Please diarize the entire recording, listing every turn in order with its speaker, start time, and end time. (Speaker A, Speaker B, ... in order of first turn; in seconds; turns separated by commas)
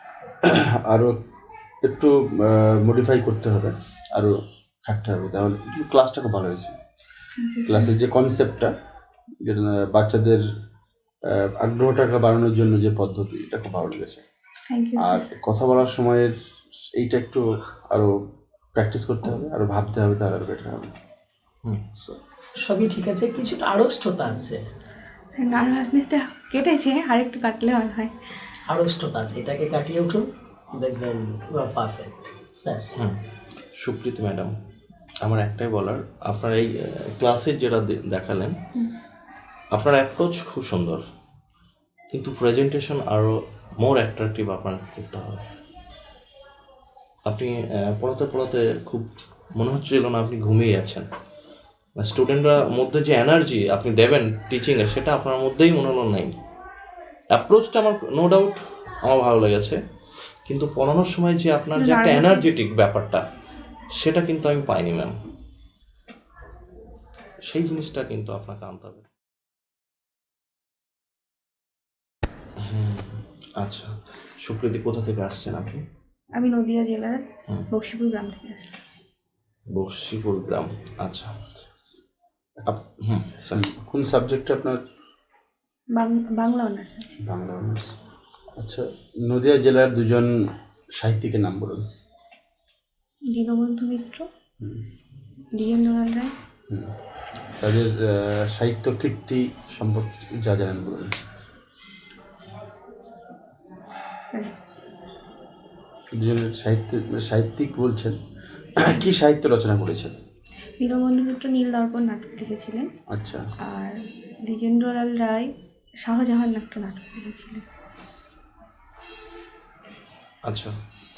Speaker A: 0.5-1.1, Speaker A: 1.8-4.3, Speaker A: 4.8-6.7, Speaker B: 7.4-7.9, Speaker A: 7.7-8.7, Speaker A: 9.4-10.4, Speaker A: 11.3-14.2, Speaker B: 14.7-15.2, Speaker A: 15.0-16.3, Speaker A: 17.0-18.1, Speaker A: 18.7-20.9, Speaker C: 21.6-22.0, Speaker D: 22.1-24.6, Speaker B: 25.4-28.1, Speaker D: 28.7-32.9, Speaker C: 33.8-34.5, Speaker C: 35.2-38.5, Speaker C: 39.7-41.0, Speaker C: 42.1-45.4, Speaker C: 47.3-51.1, Speaker C: 52.0-56.3, Speaker C: 57.3-59.8, Speaker C: 60.5-63.2, Speaker B: 61.8-62.5, Speaker C: 64.0-65.2, Speaker C: 67.5-69.0, Speaker C: 72.6-75.8, Speaker B: 76.4-78.8, Speaker C: 79.7-81.3, Speaker C: 82.7-83.6, Speaker A: 83.5-84.8, Speaker B: 86.0-87.2, Speaker A: 87.2-87.9, Speaker A: 88.6-90.3, Speaker A: 91.0-91.8, Speaker B: 93.3-94.3, Speaker B: 95.5-96.3, Speaker A: 97.6-101.1, Speaker A: 106.2-108.2, Speaker A: 108.8-110.2, Speaker B: 110.8-112.9, Speaker A: 113.1-113.4, Speaker B: 113.7-115.5, Speaker B: 116.0-117.6, Speaker C: 120.5-120.7